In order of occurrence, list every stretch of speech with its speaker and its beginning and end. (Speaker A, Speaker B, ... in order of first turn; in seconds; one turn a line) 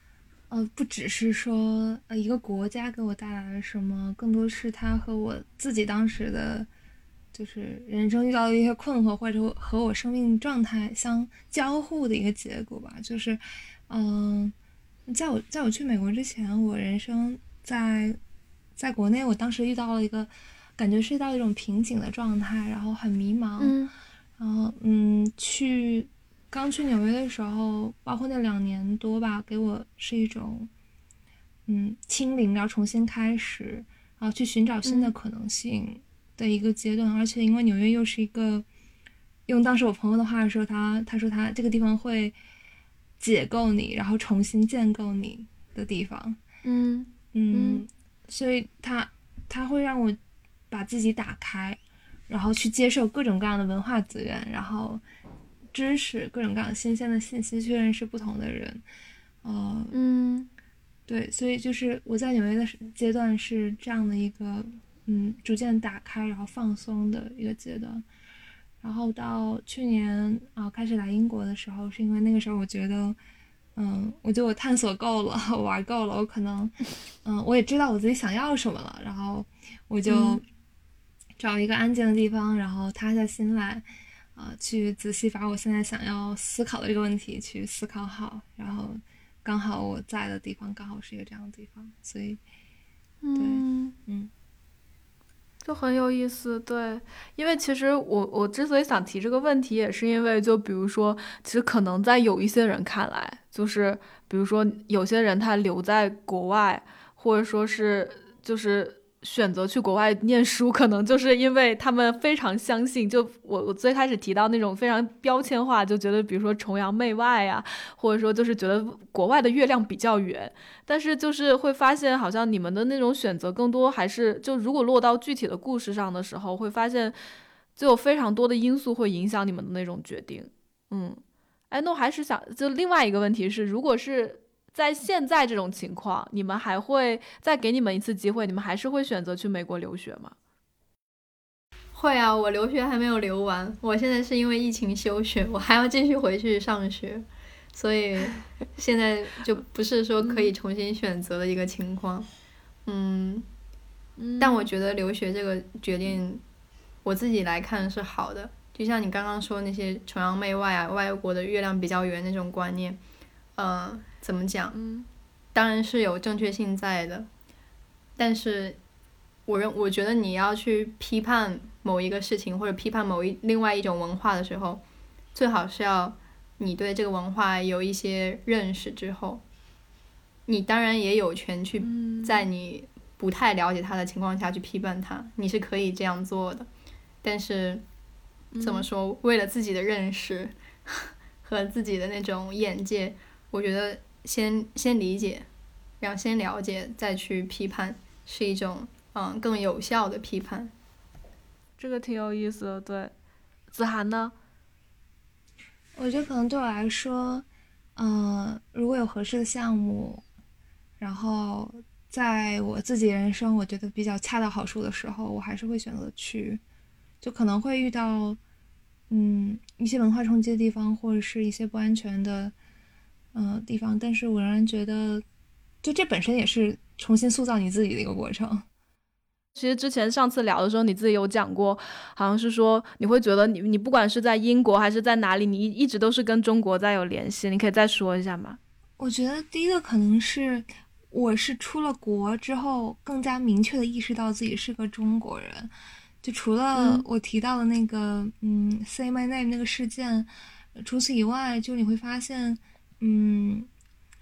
Speaker A: 0.5-6.7
Speaker A: 7.3-14.5
Speaker A: 15.1-18.2
Speaker A: 18.8-23.8
Speaker B: 23.6-23.9
Speaker A: 24.4-30.7
Speaker A: 31.7-38.6
Speaker B: 34.8-35.1
Speaker A: 39.5-42.4
Speaker A: 43.2-46.4
Speaker B: 46.6-47.8
Speaker A: 47.3-50.2
Speaker A: 50.7-55.0
Speaker A: 55.7-58.8
Speaker A: 59.4-60.0
Speaker B: 59.9-60.5
Speaker A: 61.1-68.0
Speaker A: 68.8-73.2
Speaker A: 73.8-80.4
Speaker B: 80.0-80.4
Speaker A: 81.4-92.4
Speaker B: 93.2-93.9
Speaker A: 93.3-94.3
Speaker B: 95.6-127.2
Speaker B: 127.8-140.3
Speaker C: 141.9-152.3
Speaker B: 150.2-150.5
Speaker C: 152.8-153.4
Speaker B: 154.2-154.7
Speaker C: 154.4-156.4
Speaker C: 157.0-163.0
Speaker C: 163.6-164.8
Speaker B: 164.7-165.1
Speaker C: 165.5-167.3
Speaker C: 168.2-168.8
Speaker C: 169.5-174.8
Speaker C: 175.3-179.4
Speaker C: 180.5-186.7
Speaker B: 181.8-182.4
Speaker C: 187.2-187.8
Speaker B: 188.5-188.9
Speaker C: 188.6-195.5
Speaker C: 196.0-200.7
Speaker B: 201.8-203.1
Speaker B: 203.7-204.3
Speaker A: 205.9-210.2
Speaker A: 211.0-216.6
Speaker A: 217.2-218.4
Speaker A: 219.1-222.5
Speaker A: 223.3-225.2
Speaker A: 225.8-228.7
Speaker B: 229.5-238.6
Speaker A: 239.0-245.7
Speaker A: 246.2-253.7
Speaker B: 246.7-247.0